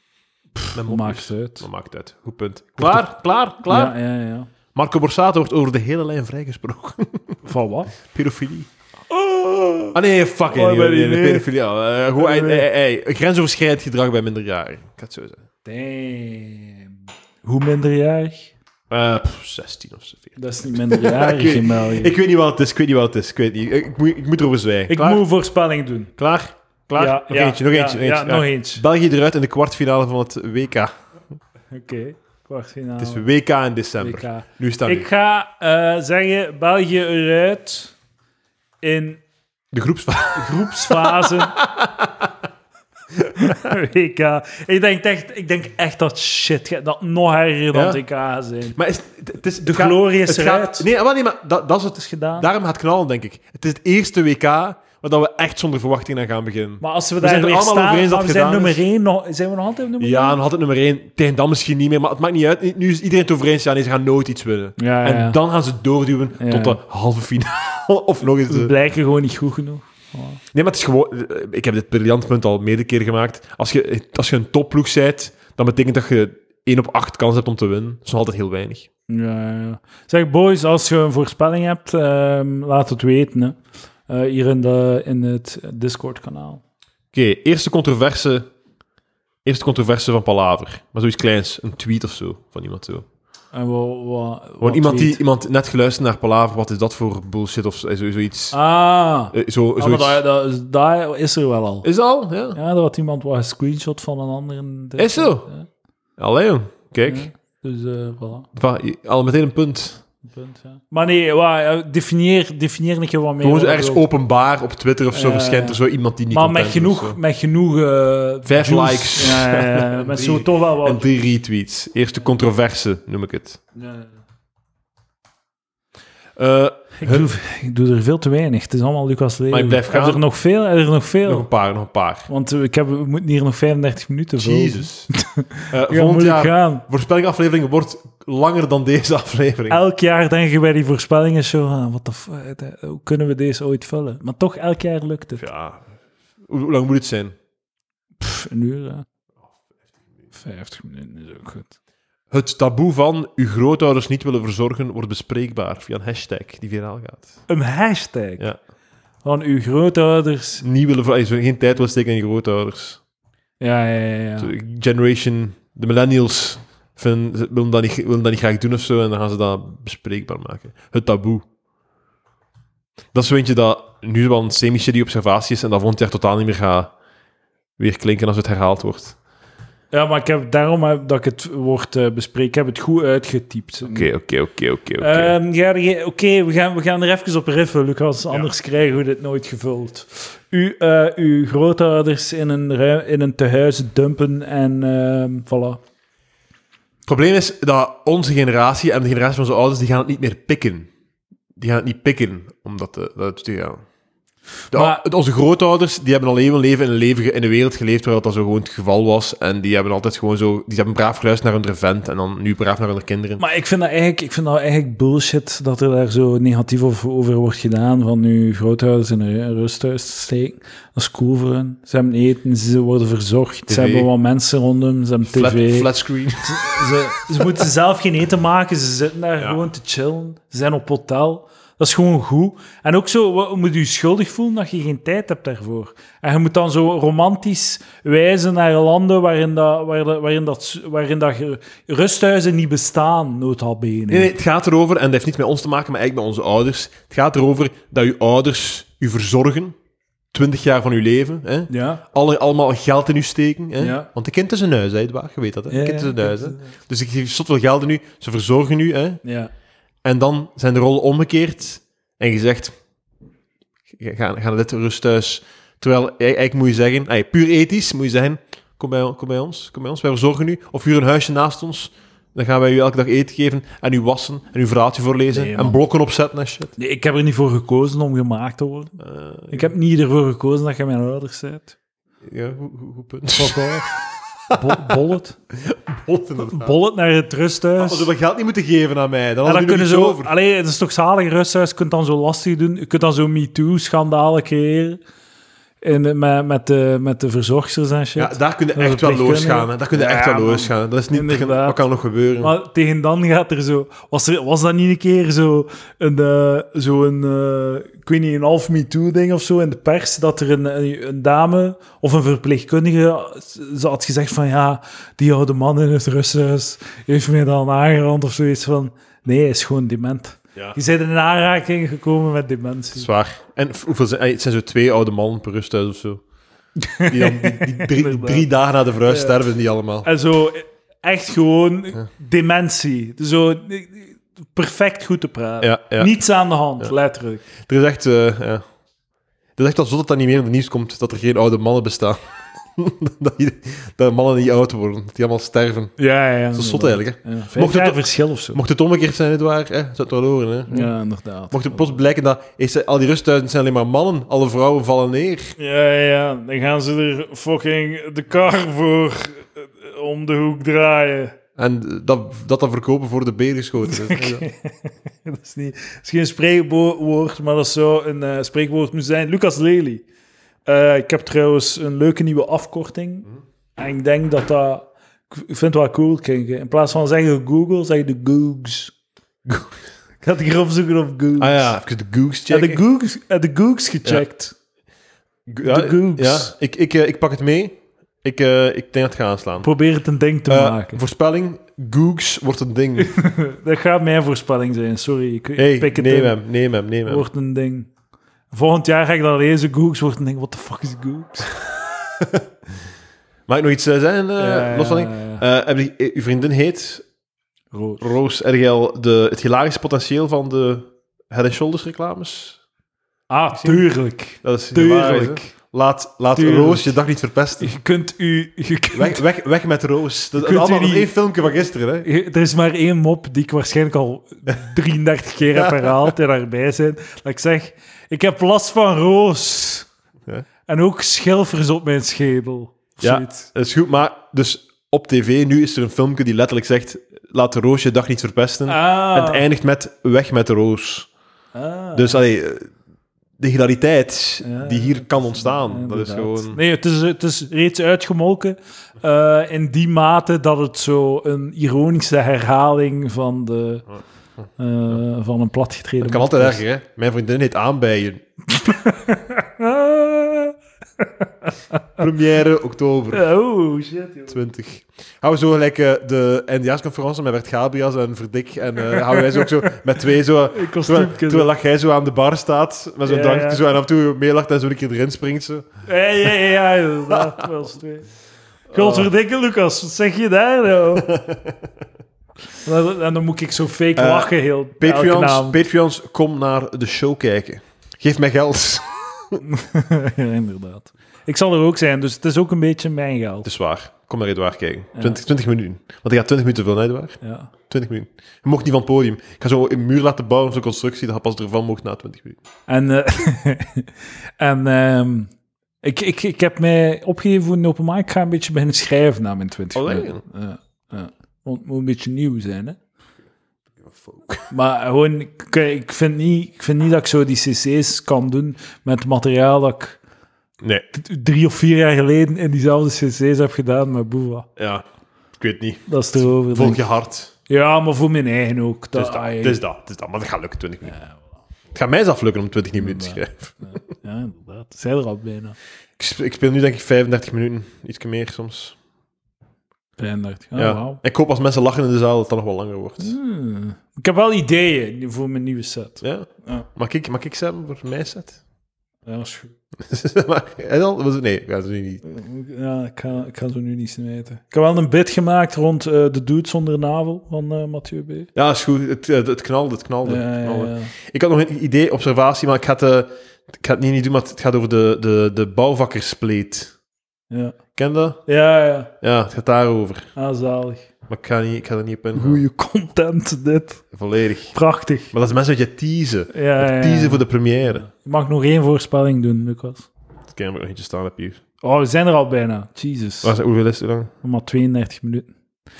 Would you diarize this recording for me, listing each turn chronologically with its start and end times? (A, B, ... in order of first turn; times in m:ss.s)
0:00.6-0:01.6 A
0:00.7-0:03.9 B
0:02.8-0:03.0 A
0:03.6-0:04.5 A
0:04.7-0:07.4 B
0:07.4-0:07.9 A
0:08.0-0:08.7 B
0:09.1-0:10.0 A
0:09.9-0:15.4 B
0:10.5-0:11.5 A
0:12.2-0:12.7 A
0:15.6-0:16.9 A
0:17.4-0:18.5 A
0:18.9-0:25.2 B
0:20.4-0:22.1 A
0:24.9-0:26.1 A
0:26.2-0:30.9 B
0:27.0-0:28.8 A
0:31.7-0:33.3 A
0:33.0-0:35.1 B
0:34.0-0:37.9 A
0:38.8-0:39.2 A
0:39.7-0:42.3 B
0:40.3-0:41.6 A
0:43.4-0:48.8 A
0:47.7-0:48.0 B
0:48.7-0:58.8 B
0:49.6-0:50.9 A
0:51.9-0:52.5 A
0:56.8-1:00.4 A
1:00.0-1:08.7 B
1:04.8-1:05.4 A
1:06.4-1:06.8 A
1:08.4-1:10.4 A
1:10.5-1:18.9 B
1:19.1-1:26.6 A
1:27.1-1:28.5 B
1:29.4-1:33.0 B
1:33.5-1:35.2 A
1:34.6-1:38.6 B
1:38.5-1:41.9 A
1:39.3-1:40.2 B
1:41.8-1:42.6 B
1:42.5-1:45.7 A
1:45.0-1:45.5 B
1:46.2-1:47.3 B
1:47.0-1:48.5 A
1:48.5-1:50.0 B
1:50.2-1:54.0 A
1:53.4-1:57.2 B
1:55.1-2:01.1 A
1:58.4-2:03.6 B
2:03.7-2:04.1 A
2:06.4-2:07.3 B
2:07.0-2:11.5 A
2:09.5-2:10.2 B
2:11.2-2:12.3 B
2:12.3-2:16.8 A
2:14.4-2:15.1 B
2:15.7-2:19.8 B
2:19.7-2:25.4 A
2:25.4-2:25.8 B
2:26.4-2:27.3 B
2:28.2-2:29.0 A
2:30.3-2:31.7 A
2:32.3-2:37.3 B
2:37.5-2:38.5 A
2:39.2-2:40.6 A
2:40.6-2:43.0 B
2:43.6-2:44.5 A
2:44.4-2:51.4 B
2:53.1-2:56.9 B
2:57.8-2:59.2 B
2:59.9-3:04.1 A
3:03.9-3:05.3 B
3:05.0-3:15.8 A
3:17.0-3:20.9 B
3:21.6-3:23.8 B
3:24.7-3:25.0 A
3:24.7-3:33.4 B
3:33.4-3:45.9 A
3:43.7-3:44.1 B
3:45.2-3:47.6 B
3:46.4-4:04.3 A
4:04.1-4:09.8 B
4:10.3-4:19.2 B
4:11.7-4:12.0 A
4:13.8-4:14.1 A
4:15.7-4:16.7 A
4:19.2-4:19.5 A
4:20.0-4:22.8 B
4:23.9-4:36.7 B
4:35.3-4:35.8 A
4:36.8-4:39.0 A
4:39.0-4:39.7 B
4:39.5-4:41.7 A
4:42.2-4:43.9 B
4:43.3-4:44.0 A
4:44.5-4:45.0 B
4:44.5-4:45.4 A
4:45.5-4:46.8 B
4:46.4-4:48.1 A
4:47.8-4:50.3 B
4:49.4-4:55.0 A
4:55.8-5:01.8 A
4:58.2-5:02.5 B
5:02.4-5:23.1 A
5:22.9-5:26.2 B
5:26.8-5:28.5 A
5:27.0-5:30.1 B
5:29.0-5:29.4 A
5:30.0-5:37.4 A
5:35.6-5:36.2 B
5:37.6-5:38.6 B
5:39.6-5:42.2 B
5:42.7-5:45.9 B
5:46.0-5:48.6 A
5:46.5-5:50.9 B
5:50.7-5:51.9 A
5:51.5-5:55.5 B
5:55.6-6:01.3 A
6:01.6-6:04.5 B
6:03.8-6:10.0 A
6:10.6-6:18.9 A
6:19.5-6:19.7 B
6:20.2-6:21.8 A
6:21.4-6:22.8 B
6:22.5-6:24.5 A
6:25.5-6:29.7 B
6:25.6-6:26.5 A
6:29.6-6:31.0 A
6:30.5-6:33.1 B
6:33.0-6:36.4 A
6:35.6-6:37.2 B
6:37.0-6:37.9 A
6:38.5-6:41.6 A
6:43.5-6:47.0 B
6:44.4-6:45.4 A
6:47.7-6:48.1 A
6:48.0-6:52.6 B
6:53.3-6:55.5 A
6:53.5-6:53.9 B
6:54.4-6:57.8 B
6:56.3-6:57.0 A
6:57.6-6:59.2 A
6:58.9-7:02.1 B
7:00.4-7:01.1 A
7:02.0-7:09.9 A
7:05.5-7:06.1 B
7:10.7-7:13.5 A
7:13.0-7:21.1 B
7:18.7-7:19.4 A
7:21.5-7:22.2 A
7:21.9-7:22.7 B
7:23.4-7:26.6 B
7:24.4-7:33.9 A
7:34.6-7:36.6 A
7:36.0-7:38.2 B
7:38.5-7:41.8 A
7:42.0-7:43.2 B
7:43.1-7:44.4 A
7:44.3-7:55.7 B
7:48.8-7:49.8 A
7:50.5-7:51.5 A
7:53.0-7:53.6 A
7:55.8-7:58.1 A
7:57.1-7:57.4 B
7:58.7-7:59.1 B
7:58.7-8:01.1 A
8:01.0-8:01.6 B
8:02.6-8:05.6 A
8:04.0-8:09.4 B
8:09.4-8:13.5 A
8:13.4-8:22.4 B
8:14.9-8:15.2 A
8:17.2-8:17.5 A
8:22.7-8:25.3 A
8:25.8-8:32.8 A
8:29.7-8:30.2 B
8:33.8-8:34.5 B
8:34.5-8:40.0 A
8:40.9-8:44.5 A
8:44.6-8:44.8 B
8:45.4-8:47.3 B
8:45.9-8:46.8 A
8:47.5-8:49.6 A
8:48.9-8:51.0 B
8:50.8-8:51.2 A
8:51.7-8:53.8 B
8:52.8-8:55.6 A
8:56.0-8:58.8 B
9:00.0-9:01.0 A
9:00.6-9:03.1 B
9:03.0-9:06.6 A
9:06.0-9:08.4 B
9:09.0-9:09.5 A
9:09.8-9:12.0 B
9:12.0-9:18.3 A
9:18.3-9:26.7 B
9:20.0-9:20.9 A
9:27.3-9:27.6 A
9:27.8-9:28.2 B
9:28.2-9:28.9 A
9:29.0-9:30.1 B
9:30.2-9:30.9 A
9:31.1-9:32.4 B
9:32.1-9:33.8 A
9:33.9-9:34.6 B
9:34.5-9:35.1 A
9:35.1-9:37.8 B
9:36.3-9:39.9 A
9:40.3-9:41.4 B
9:41.6-9:43.3 A
9:43.2-9:44.1 B
9:44.2-9:45.3 A